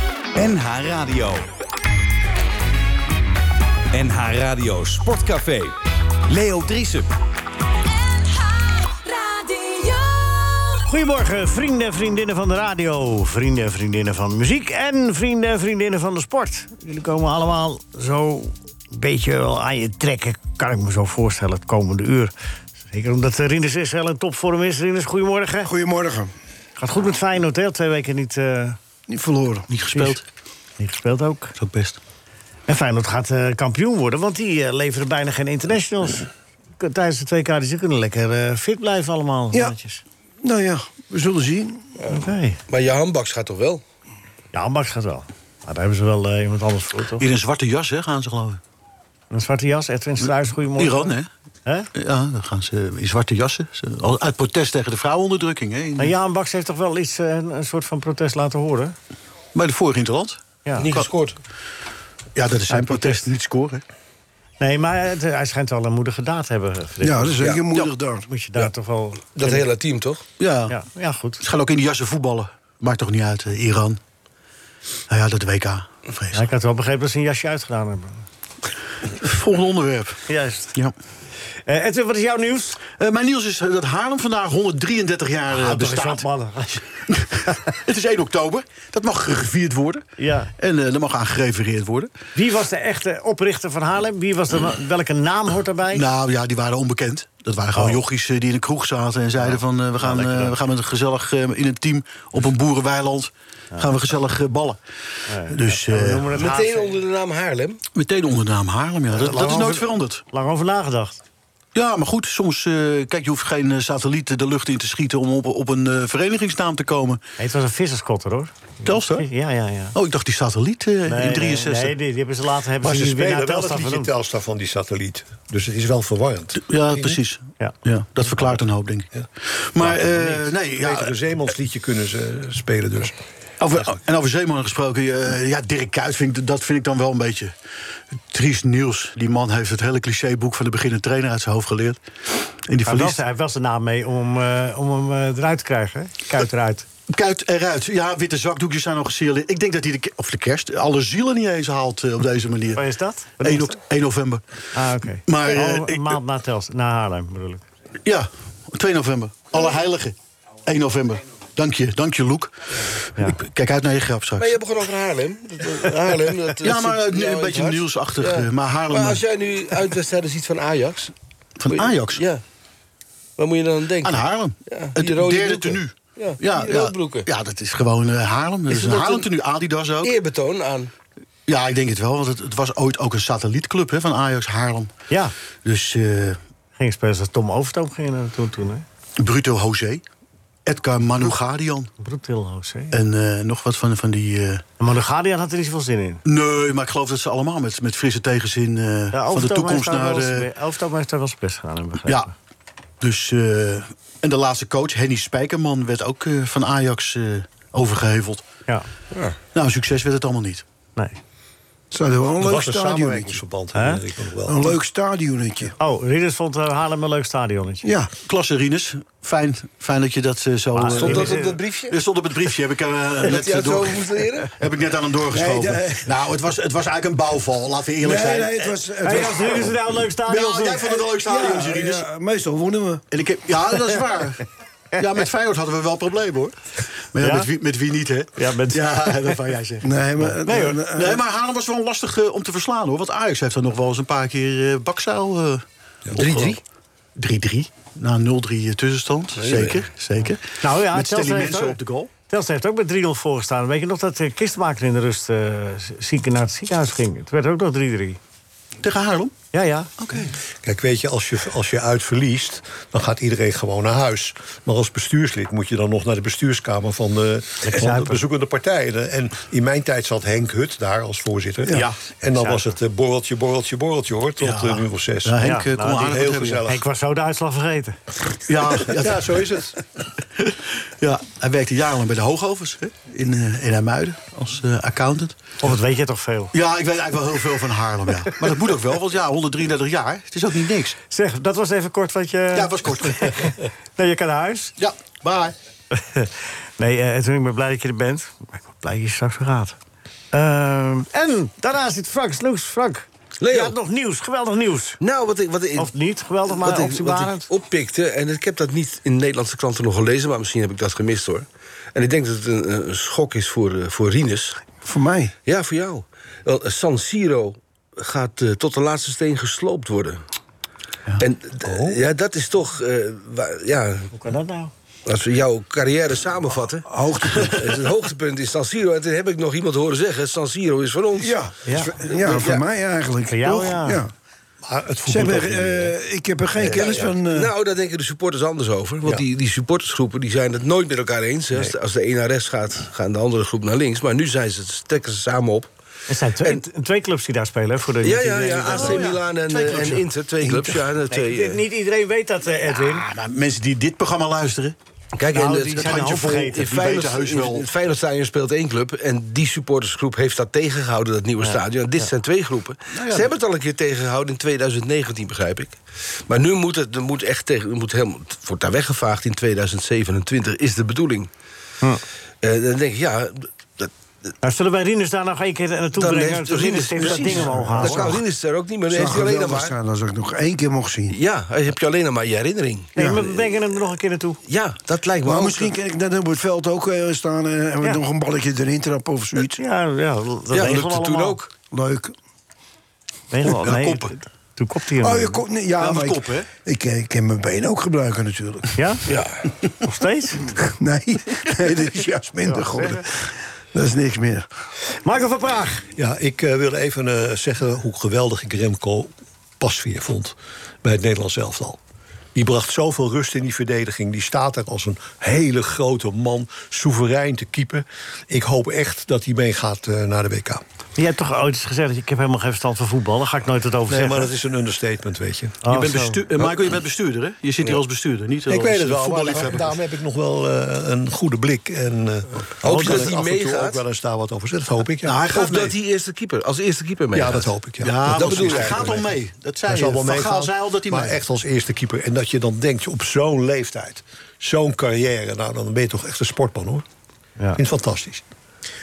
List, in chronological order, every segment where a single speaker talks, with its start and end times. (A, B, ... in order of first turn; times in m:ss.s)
0:00.4-0:01.4 A
0:03.9-0:05.7 A
0:06.3-0:07.1 A
0:07.8-0:10.8 B
0:10.8-0:22.3 C
0:22.9-0:25.7 C
0:25.6-0:26.3 D
0:26.8-0:28.8 C
0:29.1-0:29.7 D
0:29.7-0:30.2 E
0:29.9-0:30.2 C
0:30.8-0:31.5 C
0:31.6-0:32.0 E
0:32.7-0:36.3 C
0:36.8-0:40.0 C
0:40.4-0:41.9 D
0:42.1-0:42.6 C
0:42.7-0:43.8 F
0:44.5-0:47.2 C
0:47.2-0:48.6 E
0:49.3-0:51.1 C
0:50.8-0:51.3 E
0:52.0-0:56.2 E
0:56.0-0:59.0 C
0:59.6-1:01.1 E
1:00.8-1:01.4 F
1:02.4-1:03.8 E
1:02.7-1:03.2 C
1:04.6-1:09.6 C
1:07.0-1:08.2 D
1:09.4-1:10.2 F
1:10.4-1:10.8 E
1:10.7-1:11.4 C
1:11.4-1:14.0 E
1:15.1-1:16.4 E
1:16.3-1:18.2 C
1:19.2-1:20.9 E
1:20.3-1:20.7 C
1:21.7-1:22.8 C
1:23.0-1:26.2 E
1:25.5-1:26.8 C
1:27.1-1:30.1 E
1:30.2-1:30.5 C
1:30.6-1:32.1 E
1:32.3-1:36.0 C
1:35.9-1:44.8 E
1:37.7-1:38.0 C
1:39.4-1:40.6 C
1:45.3-1:46.9 C
1:45.4-1:46.3 E
1:46.3-1:47.8 F
1:47.9-1:50.2 E
1:49.1-1:51.2 C
1:51.7-1:57.2 E
1:57.4-1:59.9 C
1:58.8-1:59.2 E
1:59.9-2:02.0 E
2:01.1-2:04.1 C
2:02.8-2:06.6 G
2:06.6-2:09.1 E
2:09.6-2:11.1 E
2:09.8-2:13.1 G
2:13.6-2:17.5 E
2:18.3-2:22.0 E
2:22.7-2:23.2 E
2:22.8-2:26.9 C
2:27.1-2:32.8 E
2:32.8-2:33.8 C
2:33.4-2:34.4 E
2:34.7-2:37.6 C
2:35.3-2:36.2 E
2:38.0-2:44.5 E
2:44.4-2:51.1 F
2:46.6-2:49.2 E
2:51.6-2:52.2 E
2:51.7-2:52.4 F
2:53.4-2:57.3 F
2:54.0-3:00.1 E
2:58.7-2:59.3 F
3:00.0-3:00.9 F
3:01.5-3:04.9 E
3:05.6-3:06.4 E
3:06.8-3:08.8 C
3:09.2-3:10.0 E
3:10.7-3:11.9 E
3:12.0-3:13.0 C
3:12.9-3:14.6 E
3:14.8-3:16.2 C
3:16.3-3:20.5 E
3:19.1-3:22.3 C
3:23.0-3:28.4 E
3:29.5-3:30.6 E
3:31.9-3:33.4 D
3:32.4-3:34.8 G
3:33.8-3:34.0 C
3:34.4-3:35.8 D
3:35.8-3:37.9 C
3:37.8-3:38.1 D
3:38.3-3:44.0 E
3:40.8-3:41.4 C
3:40.9-3:42.0 F
3:43.2-3:44.5 F
3:44.6-3:49.3 E
3:45.3-3:46.1 D
3:48.0-3:49.8 D
3:49.0-3:51.0 C
3:50.3-3:52.1 E
3:51.1-3:53.0 D
3:53.1-3:54.4 E
3:55.0-3:56.6 E
3:57.1-3:59.9 E
3:57.2-3:57.5 C
3:58.4-3:59.3 C
3:59.8-4:01.2 D
4:00.2-4:00.8 C
4:01.0-4:05.6 E
4:06.1-4:06.6 E
4:06.2-4:06.6 F
4:07.2-4:12.1 E
4:09.4-4:09.8 F
4:10.6-4:11.8 C
4:12.3-4:18.2 C
4:18.8-4:19.3 E
4:19.5-4:19.9 C
4:20.0-4:20.3 E
4:20.6-4:36.8 G
4:27.6-4:28.2 C
4:32.4-4:32.7 C
4:34.4-4:36.6 E
4:35.4-4:36.1 C
4:36.6-4:38.0 C
4:38.5-4:39.6 E
4:38.9-4:39.8 G
4:40.4-4:45.5 E
4:45.6-4:46.5 C
4:46.5-4:51.0 E
4:51.1-4:54.7 C
4:52.5-4:53.5 E
4:54.8-4:55.5 E
4:55.9-4:59.8 C
5:00.3-5:05.0 C
5:03.4-5:03.8 F
5:05.0-5:05.9 F
5:05.8-5:07.5 C
5:06.5-5:14.6 F
5:14.8-5:15.3 D
5:15.4-5:20.2 F
5:21.2-5:24.1 F
5:24.1-5:24.7 C
5:25.1-5:31.4 F
5:26.9-5:27.8 D
5:31.2-5:34.1 D
5:31.6-5:31.9 C
5:32.1-5:32.6 F
5:33.3-5:34.0 C
5:34.6-5:36.0 G
5:35.1-5:37.5 D
5:36.6-5:37.1 G
5:36.6-5:45.7 F
5:46.1-5:49.1 C
5:48.0-5:51.6 F
5:48.6-5:50.0 E
5:50.4-5:50.8 D
5:51.1-5:53.1 C
5:52.6-5:54.8 E
5:55.2-6:11.3 F
5:55.3-5:56.9 C
5:55.5-5:57.7 E
6:01.4-6:02.0 C
6:12.4-6:13.9 F
6:14.4-6:18.2 C
6:16.0-6:19.8 F
6:17.7-6:18.0 D
6:18.9-6:21.1 D
6:21.1-6:23.5 F
6:23.0-6:24.4 C
6:24.5-6:25.7 F
6:25.2-6:29.6 D
6:29.6-6:31.4 C
6:30.5-6:31.5 F
6:31.7-6:32.1 D
6:33.3-6:35.4 C
6:33.4-6:34.1 E
6:35.0-6:38.7 D
6:35.8-6:36.5 E
6:38.8-6:39.0 C
6:39.1-6:39.4 F
6:39.8-6:40.5 C
6:40.5-6:44.4 D
6:42.5-6:43.0 C
6:45.0-6:45.8 C
6:46.0-6:51.8 G
6:52.3-7:00.6 G
7:01.0-7:04.3 C
7:03.9-7:05.6 G
7:05.6-7:06.2 C
7:05.6-7:09.7 E
7:08.5-7:15.2 G
7:12.6-7:13.8 F
7:15.0-7:15.8 E
7:15.3-7:17.5 F
7:17.1-7:19.1 G
7:17.8-7:21.2 E
7:18.1-7:19.0 F
7:19.7-7:26.8 G
7:27.6-7:28.2 G